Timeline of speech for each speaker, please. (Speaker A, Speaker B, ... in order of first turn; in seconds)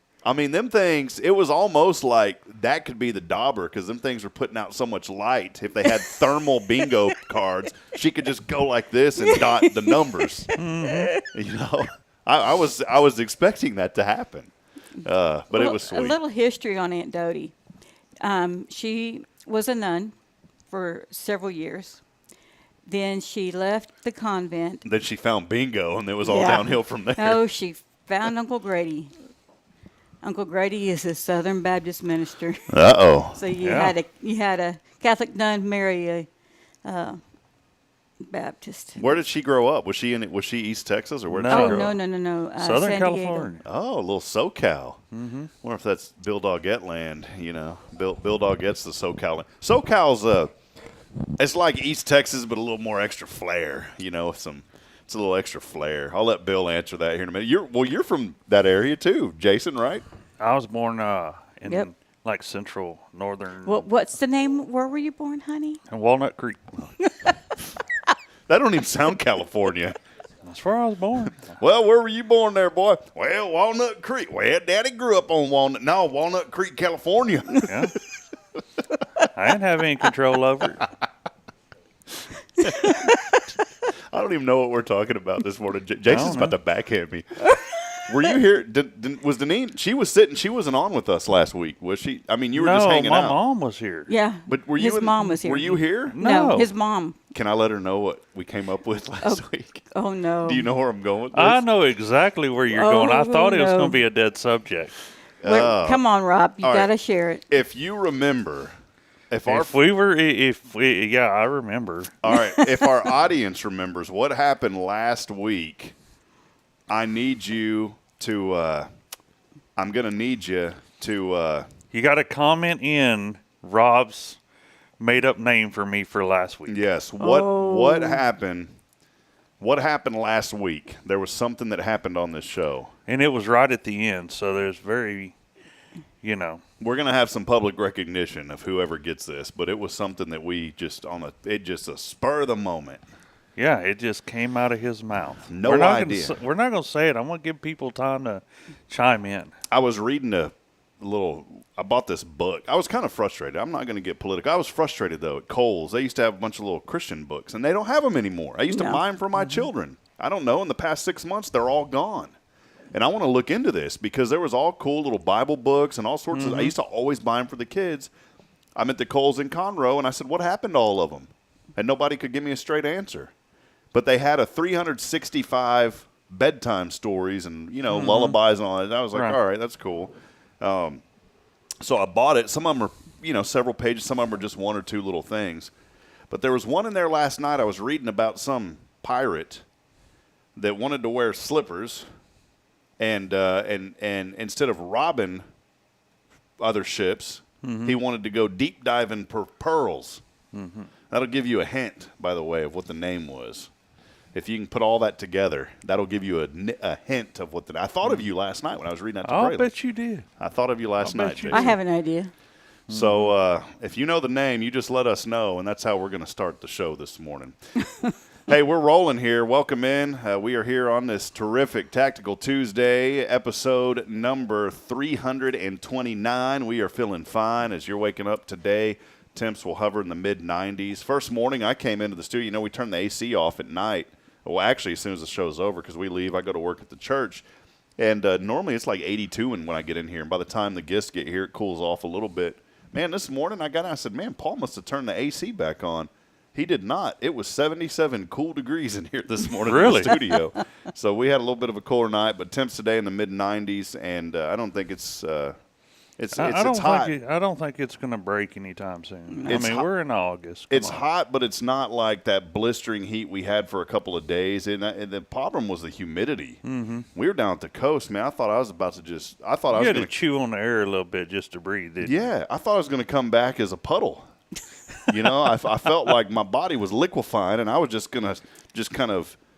Speaker A: 0.2-10.5, 11.3-16.2, 24.9-27.4, 32.7-33.4, 39.0-41.9, 43.6-45.0, 45.6-50.5, 51.4-60.0, 68.5-70.0, 71.4-77.7, 82.6-83.2, 84.1-93.4, 94.5-96.2, 97.3-99.8, 100.5-101.7, 105.4-106.0, 106.6-106.9, 107.5-108.7, 109.3-109.8, 112.2-116.0, 116.9-118.9, 119.8-121.7, 126.7-128.7, 129.6-132.9, 136.8-143.0, 145.5-146.4, 149.7-162.3, 162.9-168.1, 168.8-173.3, 173.9-181.0, 181.8-185.7, 186.3-189.6, 190.6-192.1, 193.0-195.4, 196.6-200.2, 201.1-203.7, 204.3-209.7, 210.4-211.7, 212.9-217.6, 218.5-237.4, 238.0-255.6, 256.2-257.1, 259.5-259.9, 260.7-266.6, 267.1-270.1, 272.0-274.2, 275.0-279.4
Speaker B: 9.3-11.3, 15.5-17.5, 18.2-20.1, 20.7-22.0, 22.9-24.8, 26.2-29.1, 30.2-32.7, 33.3-36.3, 36.9-37.2, 38.2-39.2, 41.5-43.5, 63.6-65.8, 82.7-83.1, 94.1-97.2, 99.2-100.7, 102.7-104.0, 105.4-107.5, 112.3-113.1, 127.2-128.2, 158.7-159.0, 211.5-212.3, 259.3-259.6
Speaker C: 10.6-11.2, 33.6-34.0, 41.3-42.0, 42.6-43.6, 45.1-45.5, 60.4-63.9, 65.9-66.8, 70.4-71.5, 77.7-78.0, 79.3-80.9, 86.1-86.6, 92.5-94.1, 96.1-96.7, 101.3-104.9, 109.5-112.2, 121.9-124.4, 125.0-126.8, 133.1-135.3, 136.2-136.6, 143.6-149.6, 159.4-159.7, 166.3-166.7, 177.9-178.4, 179.1-179.4, 197.6-198.0, 200.5-200.9, 209.2-210.3, 211.0-211.8, 212.9-213.3, 249.6-250.3, 256.3-261.1, 266.6-267.1, 269.7-272.3